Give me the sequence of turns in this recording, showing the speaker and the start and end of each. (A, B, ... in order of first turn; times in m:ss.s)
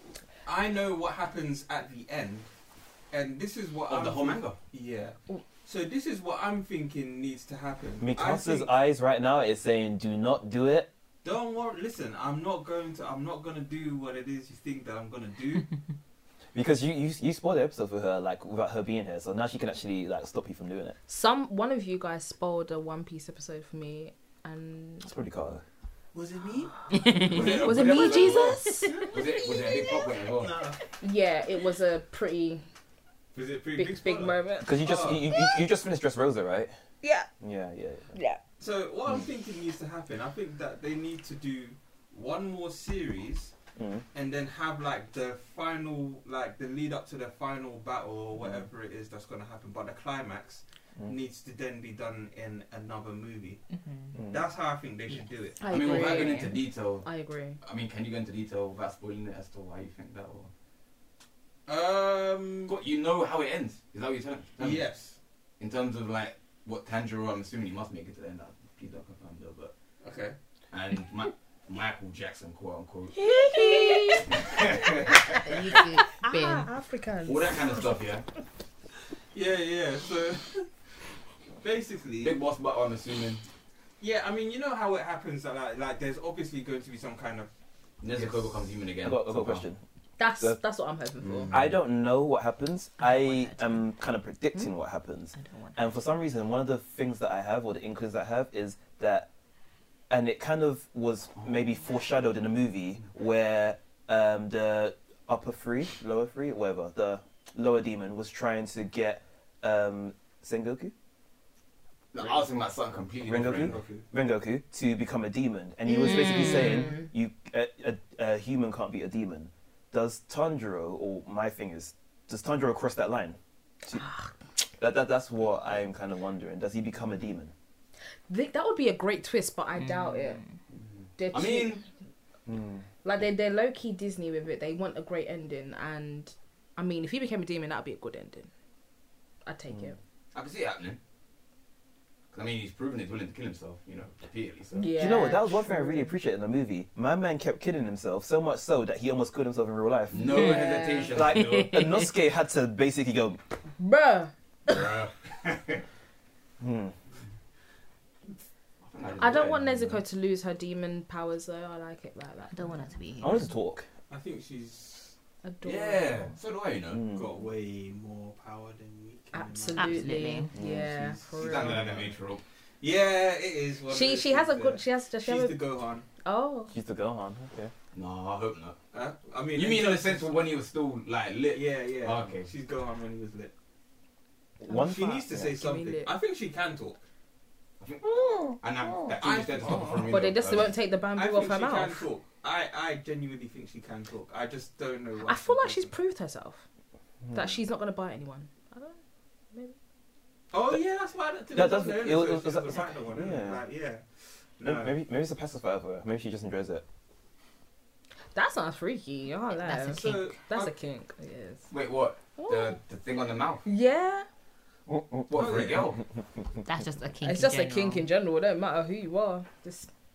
0:00.4-0:02.5 A
0:03.1-0:08.7 A
0:03.9-0:04.6 B
0:08.0-0:10.9 C
0:11.2-0:15.7 A
0:16.5-0:21.0 C
0:21.1-0:25.1 D
0:25.0-0:25.6 C
0:26.1-0:27.6 A
0:26.9-0:27.5 E
0:27.1-0:30.1 D
0:27.2-0:30.5 B
0:28.1-0:28.4 A
0:30.4-0:30.8 A
0:31.0-0:32.6 D
0:33.3-0:35.3 A
0:33.8-0:35.4 D
0:34.6-0:36.7 C
0:37.0-0:37.3 D
0:37.4-0:38.1 C
0:38.1-0:38.4 D
0:38.6-0:43.5 A
0:43.8-0:44.0 C
0:44.1-0:53.6 A
0:53.8-0:54.1 E
0:54.2-0:54.4 C
0:54.3-0:56.3 A
0:55.6-0:57.6 D
0:55.7-1:00.5 B
1:01.7-1:02.8 A
1:02.7-1:04.8 B
1:04.6-1:05.2 A
1:05.6-1:09.7 B
1:10.0-1:10.4 A
1:10.7-1:13.2 B
1:13.1-1:18.0 D
1:14.3-1:15.4 B
1:15.4-1:16.7 E
1:17.3-1:18.3 B
1:19.3-1:20.7 A
1:21.6-1:22.4 A
1:22.2-1:23.4 B
1:24.0-1:27.5 A
1:28.0-1:29.6 B
1:29.0-1:29.8 C
1:30.2-1:31.5 D
1:31.2-1:31.8 B
1:31.5-1:39.3 C
1:40.1-1:50.9 C
1:52.1-1:53.8 B
1:52.2-1:52.4 A
1:53.2-2:04.1 C
1:53.4-1:54.0 A
1:56.1-1:56.9 E
1:56.1-1:57.0 D
2:04.6-2:07.5 C
2:08.3-2:10.4 D
2:09.8-2:10.4 E
2:10.7-2:11.8 B
2:11.2-2:11.8 D
2:12.5-2:12.8 C
2:13.0-2:18.5 D
2:19.4-2:20.0 D
2:20.3-2:21.0 B
2:22.3-2:25.0 B
2:24.8-2:26.1 D
2:25.0-2:30.6 C
2:30.1-2:31.8 B
2:30.3-2:31.2 D
2:31.1-2:33.4 C
2:33.8-2:34.9 D
2:34.7-2:35.8 B
2:36.6-2:36.9 C
2:38.8-2:40.0 B
2:39.2-2:42.8 D
2:42.5-2:43.5 E
2:43.2-2:43.9 C
2:44.1-2:45.1 A
2:45.4-2:46.3 D
2:45.6-2:47.0 B
2:46.9-2:47.3 C
2:47.1-2:50.1 A
2:49.3-2:51.8 D
2:49.8-2:50.5 E
2:50.5-2:51.2 C
2:51.2-2:52.2 A
2:51.3-2:52.4 B
2:52.8-2:56.1 A
2:53.9-2:55.6 D
2:56.2-2:56.7 D
2:56.7-2:57.7 C
2:57.9-2:58.8 B
2:58.9-3:00.4 A
2:59.6-3:02.5 B
3:01.5-3:03.5 A
3:04.6-3:06.1 D
3:04.6-3:05.5 C
3:04.8-3:07.0 A
3:07.8-3:10.7 B
3:09.2-3:10.2 A
3:10.1-3:12.1 D
3:11.1-3:15.9 A
3:15.3-3:16.6 D
3:17.2-3:17.6 C
3:17.3-3:19.0 D
3:20.5-3:24.0 A
3:21.5-3:23.6 C
3:24.6-3:25.0 A
3:24.6-3:26.8 C
3:28.3-3:31.7 D
3:29.6-3:30.4 E
3:29.9-3:30.7 A
3:31.7-3:33.6 B
3:32.4-3:32.8 D
3:33.6-3:34.3 D
3:34.9-3:35.3 C
3:35.3-3:36.0 B
3:35.3-3:35.9 A
3:36.6-3:38.1 E
3:37.2-3:39.9 D